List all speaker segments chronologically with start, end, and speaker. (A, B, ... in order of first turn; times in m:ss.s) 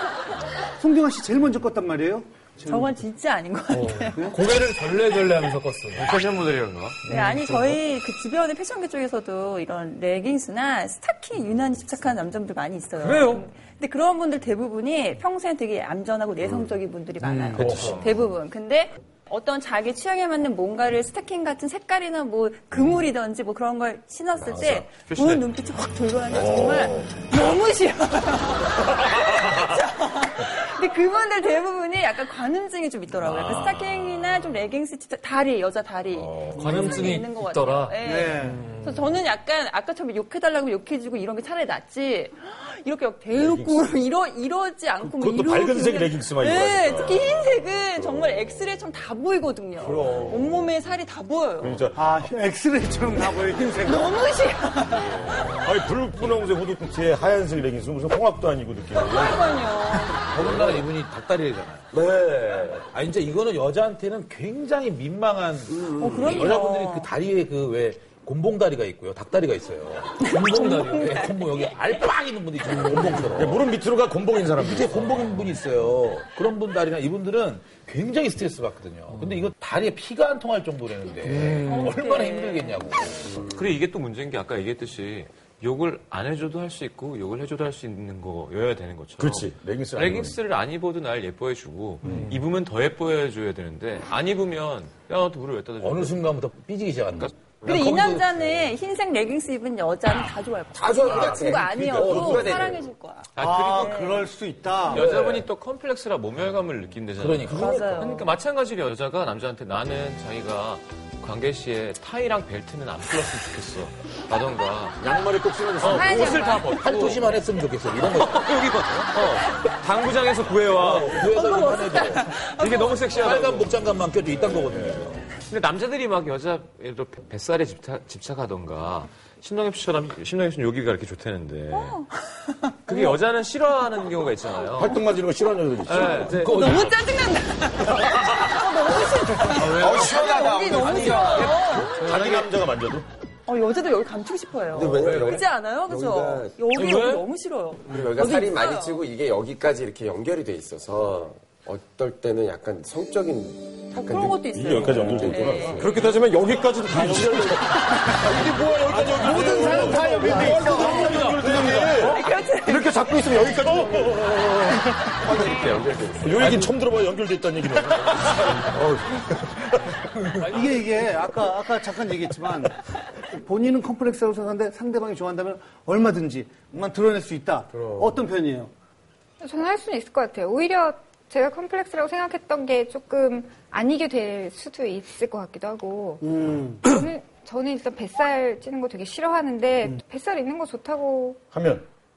0:00.8-0:03.0 A
0:02.7-0:04.4 B
0:03.8-0:06.1 C
0:04.1-0:04.5 A
0:05.9-0:07.0 D
0:07.1-0:51.8 B
0:17.4-0:18.1 E
0:17.6-0:17.9 D
0:24.4-0:24.8 F
0:24.8-0:25.4 D
0:26.3-0:27.1 G
0:33.2-0:34.1 E
0:36.5-0:37.9 D
0:38.0-0:38.7 A
0:43.4-0:43.8 G
0:45.0-0:47.4 G
0:49.8-0:50.7 G
0:51.6-0:52.3 G
0:51.9-0:54.2 A
0:53.8-0:55.3 B
0:55.2-0:59.7 G
0:58.9-1:00.3 B
1:00.1-1:02.0 E
1:01.9-1:02.8 F
1:02.7-1:13.7 E
1:06.0-1:07.1 B
1:10.5-1:11.2 B
1:13.4-1:15.3 G
1:14.6-1:23.4 E
1:21.6-1:22.8 B
1:23.3-1:36.2 D
1:29.2-1:30.4 G
1:32.0-1:32.4 G
1:35.8-1:38.3 E
1:37.6-1:44.2 B
1:40.7-1:42.9 F
1:41.2-1:41.5 A
1:41.9-1:42.6 G
1:42.1-1:42.6 E
1:43.4-1:45.1 A
1:43.4-1:44.3 D
1:44.9-1:55.0 D
1:44.9-1:45.5 E
1:47.2-1:48.0 E
1:47.5-1:48.3 B
1:55.0-1:56.6 G
1:55.8-1:58.4 E
1:55.9-1:57.3 D
1:56.0-1:56.8 B
1:58.0-2:01.4 D
2:00.8-2:02.4 E
2:01.3-2:03.1 B
2:02.4-2:03.7 D
2:03.1-2:05.2 E
2:04.7-2:05.1 G
2:05.4-2:12.0 D
2:11.7-2:13.0 B
2:12.8-2:14.9 D
2:14.8-2:16.4 G
2:15.8-2:16.9 D
2:16.3-2:16.9 E
2:16.4-2:22.0 B
2:19.5-2:20.2 D
2:19.8-2:21.4 F
2:21.3-2:22.5 D
2:21.8-2:23.1 G
2:23.5-2:29.0 B
2:24.7-2:26.8 F
2:26.8-2:27.2 D
2:27.9-2:36.1 F
2:33.9-2:35.9 B
2:34.5-2:50.0 G
2:37.0-2:37.5 F
2:38.8-2:42.1 E
2:39.1-2:41.9 A
2:40.7-2:41.2 B
2:41.9-2:43.1 B
2:45.2-2:46.7 F
2:50.4-2:50.7 C
2:50.5-2:52.8 A
2:53.3-2:58.7 A
2:59.4-3:06.3 H
3:06.2-3:06.8 A
3:06.9-3:11.4 H
3:11.5-3:11.9 G